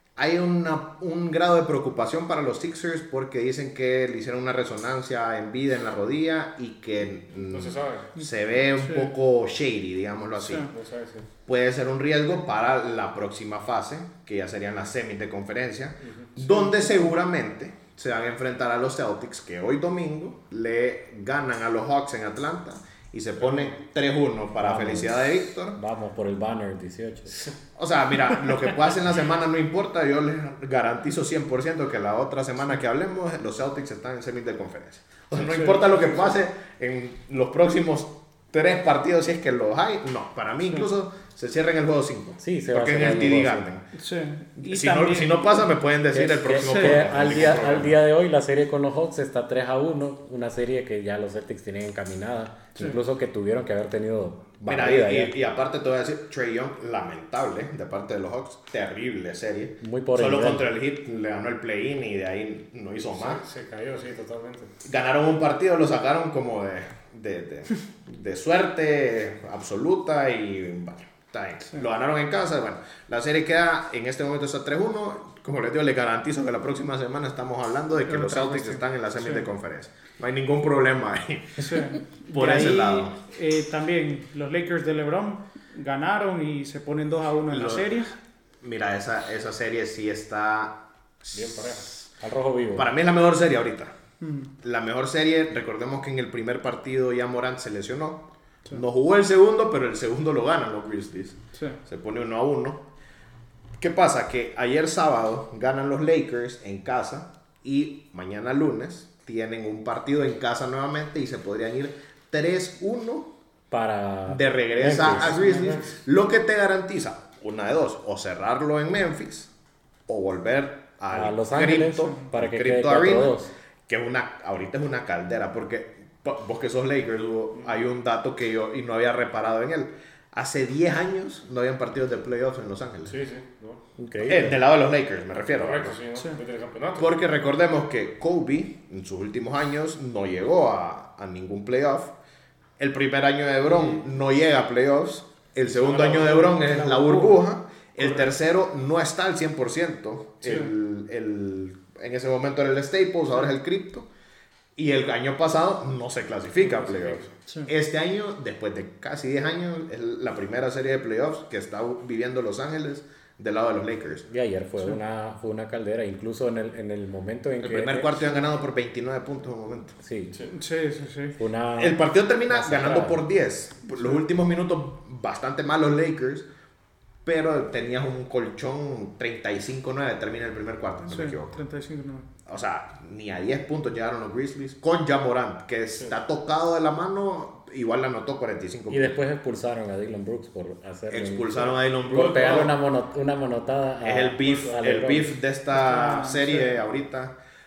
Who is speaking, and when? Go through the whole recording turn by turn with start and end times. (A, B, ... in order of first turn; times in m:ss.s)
0:00.2-0:10.7 A
0:07.5-0:08.1 B
0:08.8-0:09.1 C
0:10.4-0:10.7 C
0:10.7-0:11.3 B
0:11.5-0:25.8 A
0:16.0-0:16.3 B
0:16.4-0:17.0 C
0:23.4-0:23.8 B
0:24.6-0:27.5 D
0:27.8-0:43.8 A
0:35.3-0:36.2 C
0:42.4-0:43.7 D
0:44.0-0:45.6 C
0:44.6-0:48.0 A
0:46.1-0:55.3 D
0:46.6-0:47.2 C
0:54.6-1:03.4 A
0:59.8-1:00.7 D
1:03.1-1:04.7 B
1:04.8-1:23.2 A
1:18.1-1:19.5 C
1:21.6-1:28.1 C
1:27.5-1:28.1 A
1:28.6-1:32.0 A
1:31.3-1:31.9 B
1:32.2-1:32.9 D
1:32.8-1:33.9 A
1:34.2-1:34.5 C
1:34.6-1:42.8 A
1:43.8-1:53.3 A
1:53.7-1:55.4 D
1:54.3-1:59.5 A
1:55.0-1:55.9 C
2:00.1-2:13.2 A
2:01.1-2:03.5 D
2:13.1-2:13.8 B
2:14.0-2:14.6 D
2:14.2-2:16.0 A
2:15.5-2:17.2 B
2:17.0-2:22.1 A
2:22.8-2:34.1 A
2:25.8-2:26.6 B
2:26.2-2:27.4 C
2:34.8-2:44.3 A
2:36.8-2:37.2 B
2:37.5-2:37.7 C
2:44.3-2:48.2 D
2:47.6-2:50.0 A
2:50.0-2:50.4 D
2:50.5-2:51.4 C
2:51.4-2:53.2 D
2:51.8-2:56.5 A
2:53.9-2:54.2 C
2:57.2-3:01.6 A
3:01.1-3:02.3 C
3:02.5-3:09.2 A
3:08.9-3:15.4 D
3:11.1-3:12.7 A
3:14.0-3:17.4 A
3:15.7-3:16.8 C